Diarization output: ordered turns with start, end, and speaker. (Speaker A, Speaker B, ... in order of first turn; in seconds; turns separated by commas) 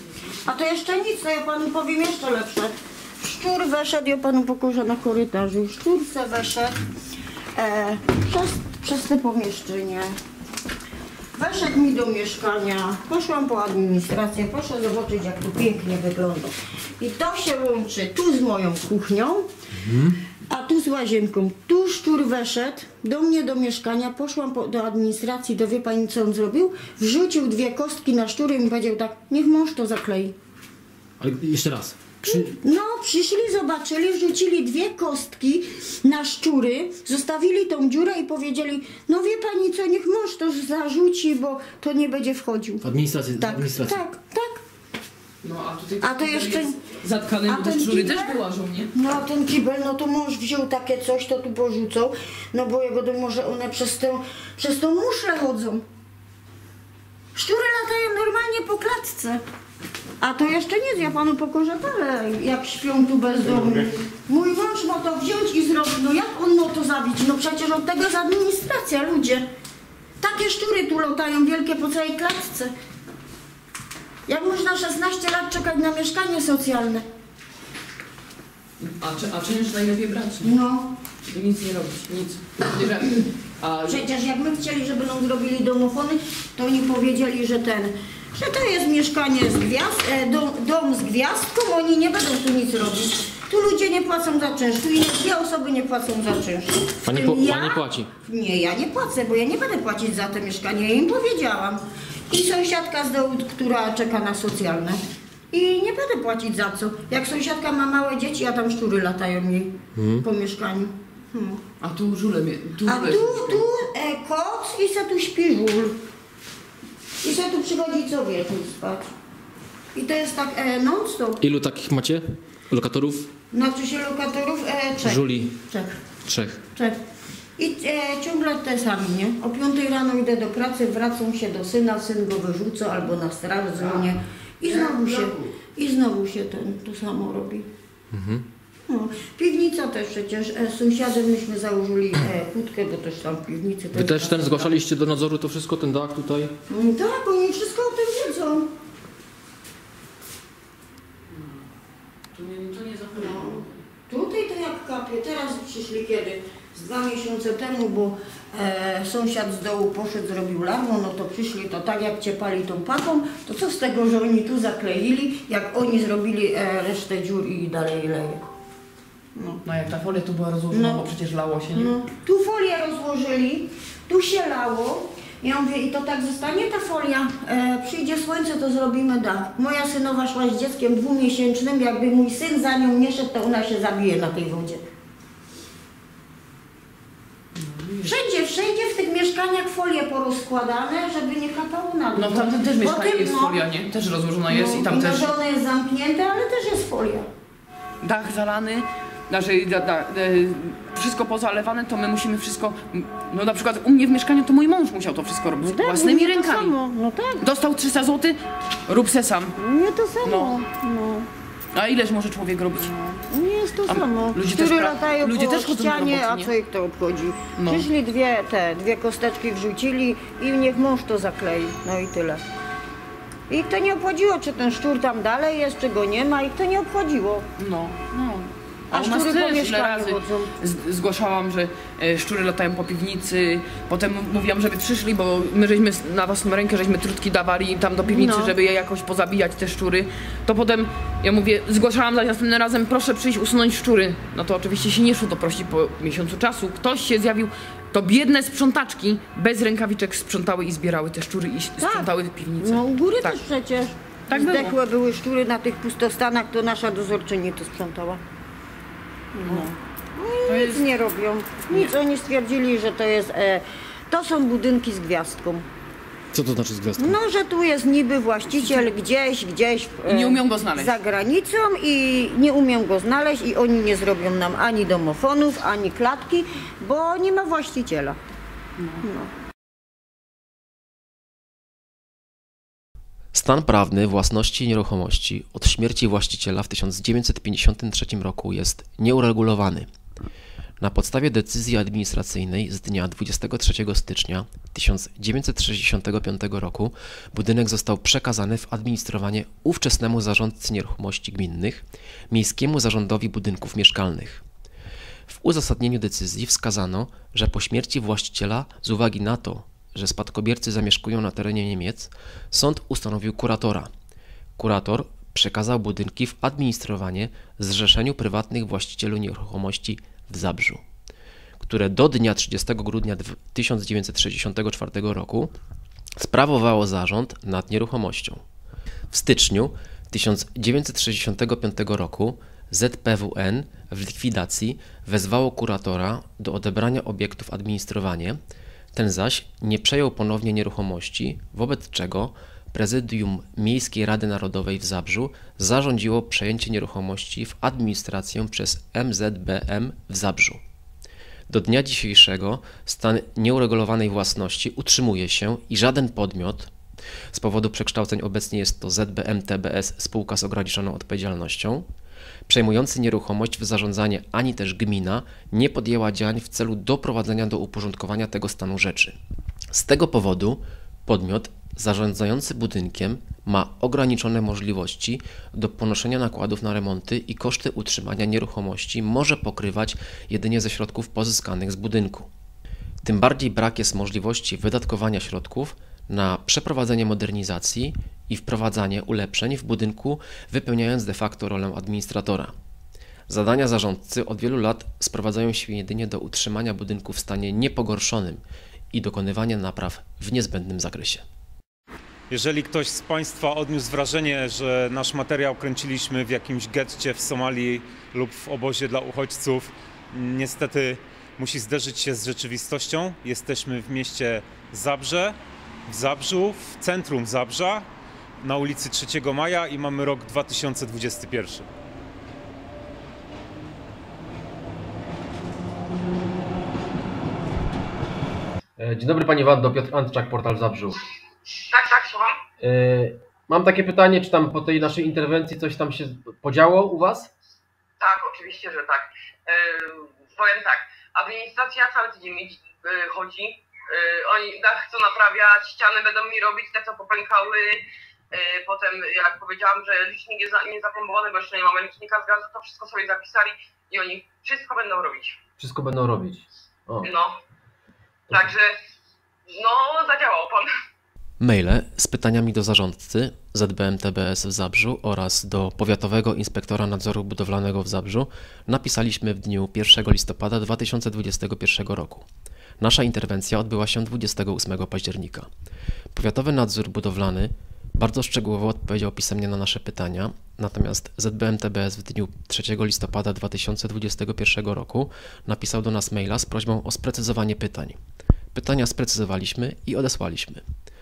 Speaker A: 0.5-6.8, Speaker A: 7.5-10.2, Speaker A: 11.4-19.5, Speaker B: 19.8-20.2, Speaker A: 20.5-30.4, Speaker B: 31.2-32.5, Speaker A: 32.2-42.9, Speaker B: 42.8-44.0, Speaker A: 43.4-44.6, Speaker C: 45.4-48.9, Speaker A: 46.0-46.8, Speaker A: 47.5-48.4, Speaker A: 48.9-55.9, Speaker A: 57.4-59.4, Speaker A: 60.2-69.5, Speaker A: 70.2-72.7, Speaker A: 74.3-77.1, Speaker C: 78.8-80.6, Speaker A: 80.4-81.0, Speaker C: 81.3-84.0, Speaker A: 83.9-111.6, Speaker B: 97.0-98.1, Speaker B: 110.0-110.3, Speaker C: 111.8-113.6, Speaker A: 112.8-116.0, Speaker A: 117.2-119.1, Speaker A: 119.9-121.4, Speaker B: 121.4-123.3, Speaker A: 123.5-125.9, Speaker B: 125.0-125.5, Speaker B: 126.2-126.6, Speaker A: 127.6-137.7, Speaker B: 138.1-138.4, Speaker A: 138.9-144.7, Speaker B: 143.9-146.5, Speaker A: 146.7-148.7, Speaker C: 151.3-151.6, Speaker C: 152.3-153.8, Speaker A: 153.2-168.5, Speaker A: 169.3-169.6, Speaker C: 169.6-171.9, Speaker A: 170.7-171.1, Speaker A: 171.7-184.8, Speaker C: 187.6-188.1, Speaker A: 188.0-193.6, Speaker C: 192.2-195.3, Speaker A: 194.5-197.3, Speaker C: 198.0-206.8, Speaker A: 205.6-207.5, Speaker C: 207.4-209.6, Speaker A: 209.6-211.3, Speaker C: 210.2-210.6, Speaker C: 211.7-213.0, Speaker A: 213.0-222.4, Speaker C: 213.9-216.5, Speaker C: 217.6-217.9, Speaker A: 223.5-227.5, Speaker C: 227.6-253.4, Speaker A: 228.9-230.5, Speaker A: 238.1-238.5, Speaker A: 251.8-258.2, Speaker C: 254.3-254.8, Speaker A: 259.3-265.7, Speaker C: 259.4-259.8, Speaker C: 260.5-260.9, Speaker B: 266.3-267.2, Speaker A: 267.0-278.2, Speaker C: 270.1-270.9, Speaker C: 278.8-279.1, Speaker A: 279.0-279.3, Speaker D: 283.3-289.9, Speaker D: 290.8-304.4, Speaker D: 305.3-313.9, Speaker D: 314.6-320.8, Speaker D: 321.6-325.5, Speaker D: 326.2-328.4, Speaker D: 329.1-338.4, Speaker D: 338.9-350.6, Speaker D: 351.5-356.7, Speaker D: 357.3-361.9, Speaker D: 362.5-369.2, Speaker D: 369.7-382.3, Speaker D: 383.0-392.5, Speaker D: 393.3-398.4, Speaker D: 398.9-401.2, Speaker E: 402.3-417.9, Speaker E: 418.4-421.7, Speaker F: 428.8-431.0, Speaker G: 431.5-432.4, Speaker F: 432.6-437.3, Speaker G: 438.0-455.4, Speaker F: 455.6-457.1, Speaker G: 457.0-457.4, Speaker G: 458.3-458.8, Speaker G: 459.5-460.7, Speaker D: 461.4-472.3, Speaker D: 472.8-475.5, Speaker D: 476.1-488.0, Speaker D: 488.5-490.6